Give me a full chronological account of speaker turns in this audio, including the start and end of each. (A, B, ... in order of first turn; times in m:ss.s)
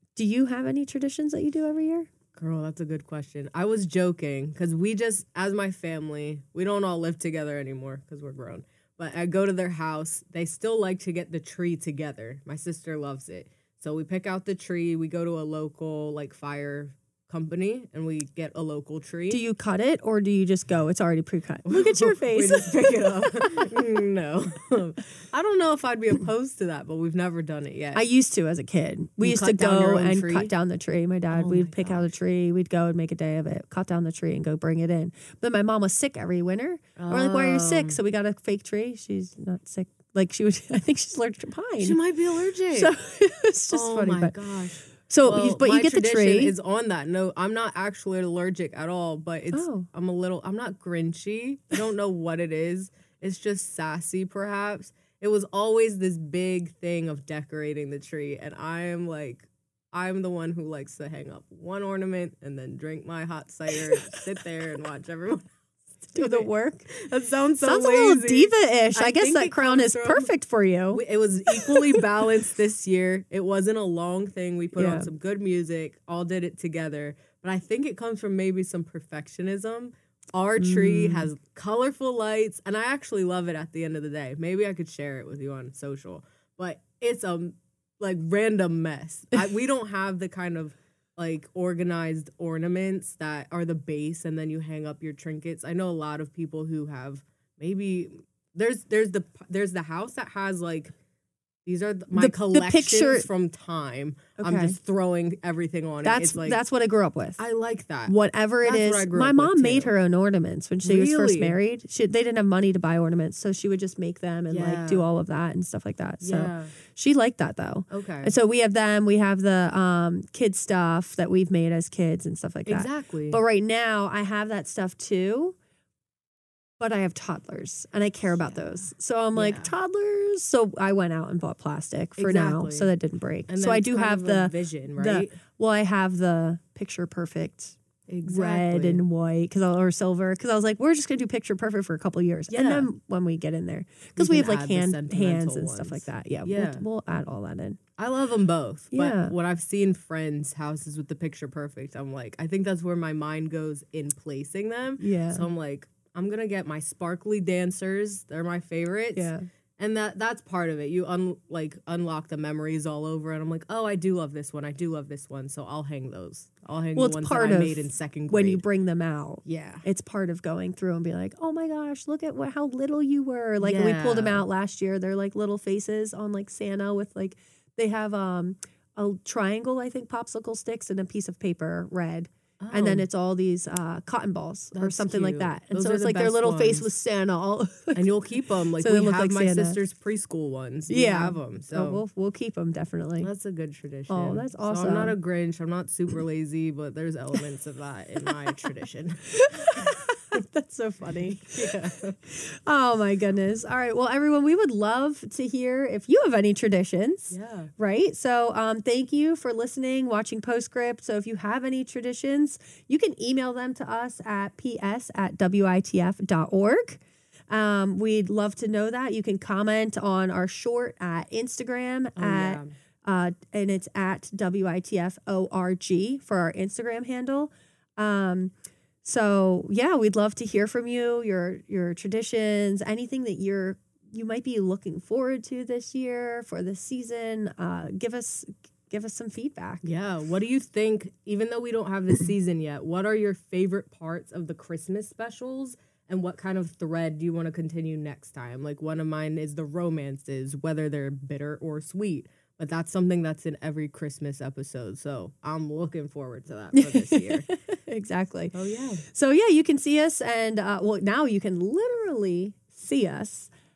0:00.2-0:02.1 A
0:02.4-0:19.4 B
0:19.3-0:23.7 A
0:21.7-0:28.0 B
0:28.0-0:42.0 A
0:29.2-0:30.5 B
0:31.3-0:32.1 B
0:37.0-0:38.0 B
0:41.8-0:42.9 B
0:42.7-0:44.4 A
0:43.7-1:05.5 B
0:45.0-0:46.5 A
0:49.5-0:49.9 A
1:06.1-1:10.3 B
1:06.1-1:06.9 A
1:07.6-1:12.1 A
1:10.9-1:40.9 B
1:14.8-1:15.1 A
1:20.6-1:21.3 A
1:41.6-1:46.6 B
1:42.1-1:43.3 A
1:44.4-1:44.8 A
1:46.0-1:47.4 A
1:47.4-1:49.9 B
1:48.1-2:05.6 A
1:50.8-1:51.6 B
1:54.5-1:55.1 B
1:56.2-1:56.8 B
1:57.9-1:58.3 B
2:02.7-2:03.4 B
2:06.8-2:27.8 A
2:09.3-2:09.7 B
2:12.2-2:12.9 B
2:13.5-2:15.4 B
2:18.1-2:19.0 B
2:22.5-2:22.9 B
2:24.2-2:26.8 B
2:28.0-2:48.6 B
2:28.9-2:29.3 A
2:35.0-2:35.5 A
2:39.2-2:39.4 A
2:47.0-3:08.1 A
2:49.4-2:49.9 B
2:53.6-2:54.5 B
3:02.6-3:03.1 B
3:04.7-3:06.9 B
3:07.9-3:12.0 B
3:08.8-3:09.8 A
3:10.9-3:13.3 A
3:13.2-3:20.0 B
3:14.1-3:15.2 A
3:18.3-3:18.7 A
3:19.3-3:59.8 A
3:21.1-3:22.2 B
3:27.3-3:27.7 B
3:42.2-3:42.8 B
3:59.8-4:17.5 B
4:16.8-4:23.5 A
4:18.5-4:19.0 B